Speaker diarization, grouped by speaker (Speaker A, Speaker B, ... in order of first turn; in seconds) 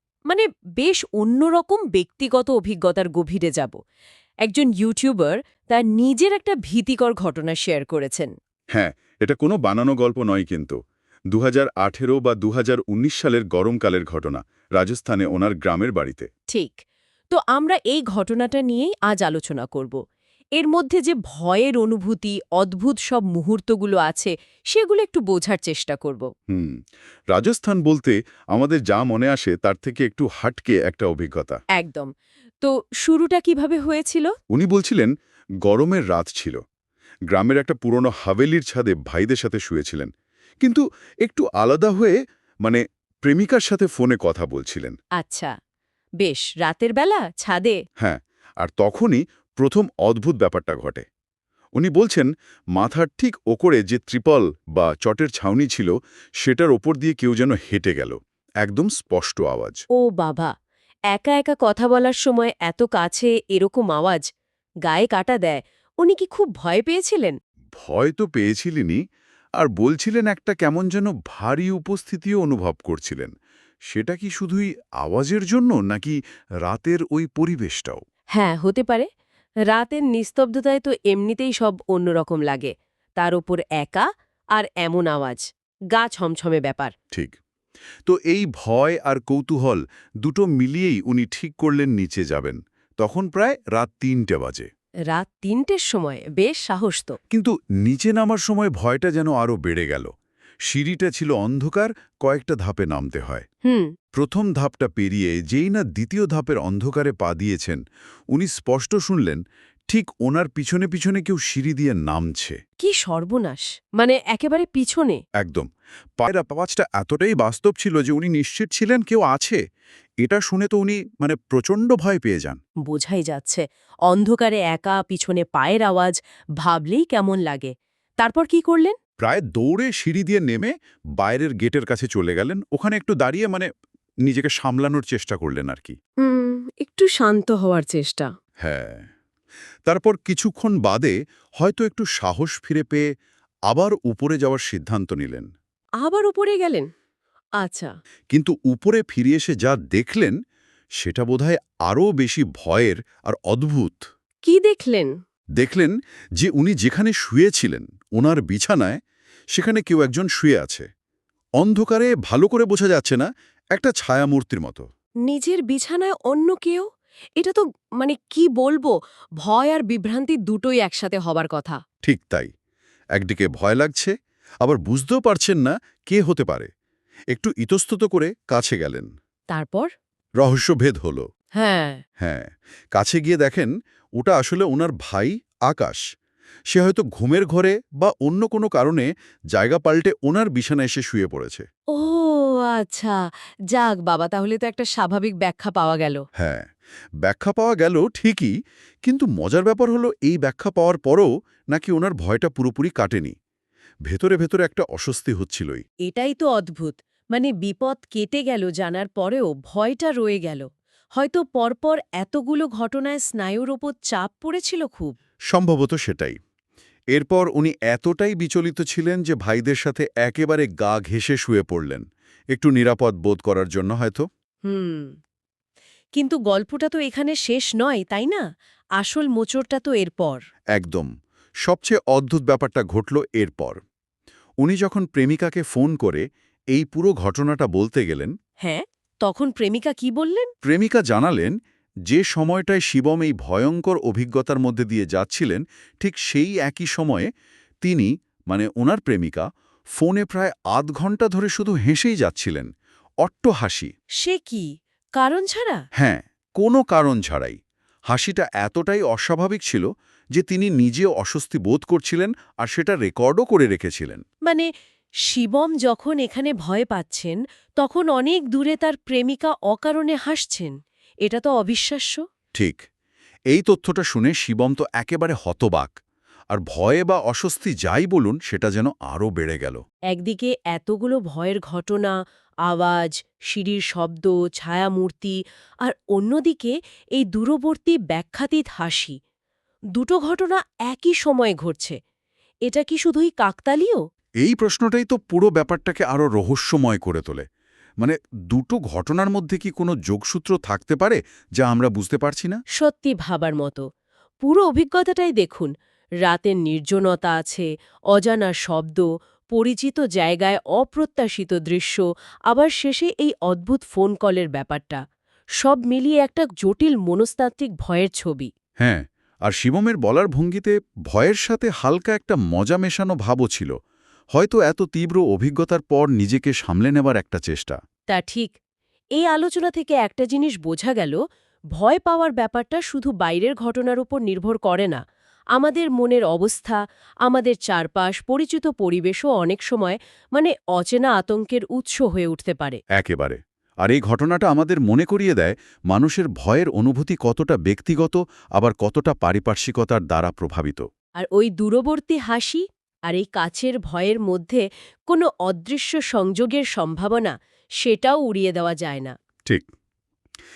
Speaker A: 0.3-3.8, 4.4-8.3, 16.5-20.0, 20.6-26.3, 31.8-32.1, 32.6-34.3, 45.2-45.5, 46.2-47.8, 60.0-60.5, 61.1-64.2, 64.9-67.4, 78.3-79.1, 79.7-86.9, 95.1-97.2, 103.7-103.9, 112.8-115.2, 122.9-129.0, 136.2-138.3, 146.0-146.9, 147.6-147.9, 154.4-155.1, 165.3-171.8, 179.5-179.9, 181.6-182.0, 191.9-193.2, 193.7-196.2, 206.1-215.1, 224.7-225.2, 226.2-228.4, 229.0-230.4, 238.6-240.5, 254.2-255.8, 265.3-272.2, 280.1-282.2, 282.7-289.2, 290.0-292.0, 292.7-294.0, 302.8-303.9, 304.4-305.7, 306.2-315.0, 315.6-318.5, 328.1-328.5, 329.2-331.2, 331.8-335.0, 335.6-342.8, 351.2-359.1
Speaker B: 8.7-10.8, 11.3-16.3, 26.5-31.6, 34.5-35.1, 35.6-36.6, 37.3-40.1, 40.6-45.0, 48.0-51.0, 51.8-59.8, 67.8-69.0, 69.6-73.3, 73.9-78.0, 88.1-94.7, 97.3-100.1, 100.7-103.5, 104.1-107.8, 108.3-112.6, 115.4-115.7, 116.2-119.6, 120.2-122.6, 129.2-133.7, 134.3-136.0, 138.6-139.1, 139.9-143.1, 143.7-145.5, 148.3-150.3, 151.0-154.0, 155.6-159.0, 159.6-160.9, 161.6-164.9, 172.0-172.5, 173.2-176.7, 177.3-179.1, 180.4-181.3, 182.2-186.0, 186.7-191.7, 196.4-196.7, 197.2-198.5, 199.1-203.3, 204.1-205.8, 215.5-216.4, 217.1-224.2, 230.8-231.1, 231.7-233.8, 234.6-238.3, 240.6-241.5, 242.1-247.3, 247.8-249.4, 250.0-252.7, 253.2-253.9, 256.0-257.6, 258.1-264.2, 272.6-272.8, 273.5-276.0, 276.5-279.8, 294.4-297.4, 298.0-302.6, 318.8-323.7, 324.4-327.8, 342.9-350.9